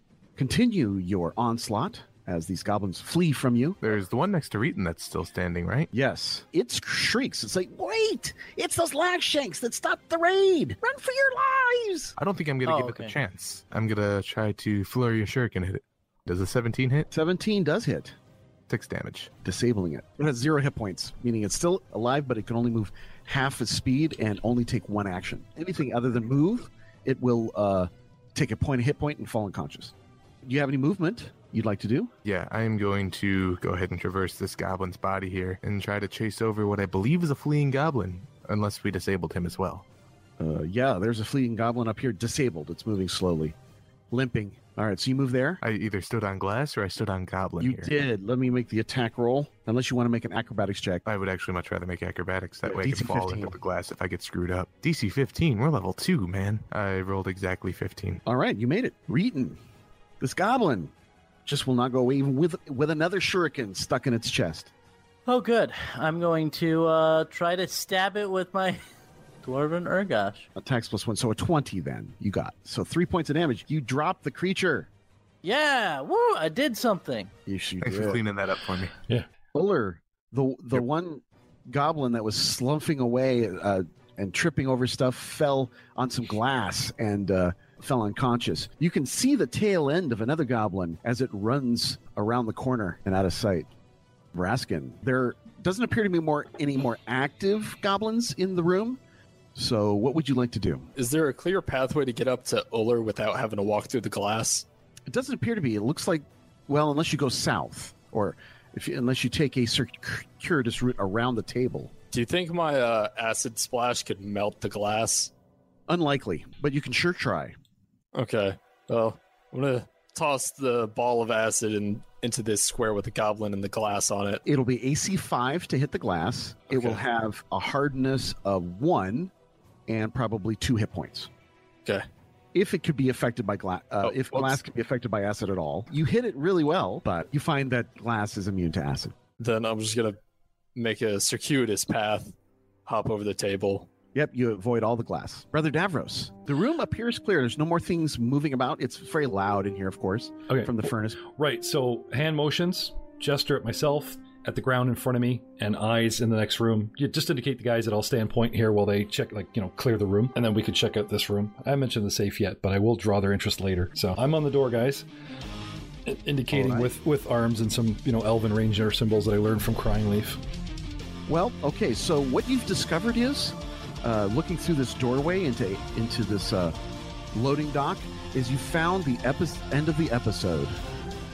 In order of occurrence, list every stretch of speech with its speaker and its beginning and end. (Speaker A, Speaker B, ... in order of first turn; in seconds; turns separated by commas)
Speaker A: 0.4-3.8, Speaker B: 3.8-5.9, Speaker A: 5.9-12.2, Speaker B: 12.2-17.1, Speaker C: 12.7-13.2, Speaker A: 17.1-18.1, Speaker B: 18.7-19.3, Speaker A: 19.4-32.1, Speaker B: 32.2-39.9, Speaker A: 40.4-43.5, Speaker A: 44.1-45.6, Speaker B: 45.6-47.9, Speaker A: 47.6-51.0, Speaker B: 51.1-58.2, Speaker A: 52.6-53.6, Speaker A: 58.3-59.6, Speaker A: 60.2-60.9, Speaker A: 61.5-64.7, Speaker C: 65.3-68.8, Speaker C: 69.4-70.5, Speaker A: 70.6-74.9, Speaker C: 75.4-77.3, Speaker A: 77.5-78.2, Speaker B: 77.8-78.9, Speaker A: 79.5-93.7, Speaker A: 94.3-99.0, Speaker A: 99.5-100.9, Speaker D: 101.0-104.7, Speaker A: 105.1-111.9, Speaker D: 112.1-115.3, Speaker A: 115.9-117.6, Speaker D: 118.1-124.4, Speaker A: 124.5-129.3, Speaker D: 126.7-127.0, Speaker A: 129.9-131.3, Speaker A: 132.5-139.2, Speaker D: 134.0-134.6, Speaker D: 139.4-140.2, Speaker D: 140.8-142.3, Speaker D: 142.9-143.9, Speaker A: 144.1-151.2, Speaker E: 150.5-150.8, Speaker E: 151.3-165.1, Speaker E: 166.1-170.4, Speaker A: 166.5-166.9, Speaker A: 171.3-176.8, Speaker A: 177.3-180.8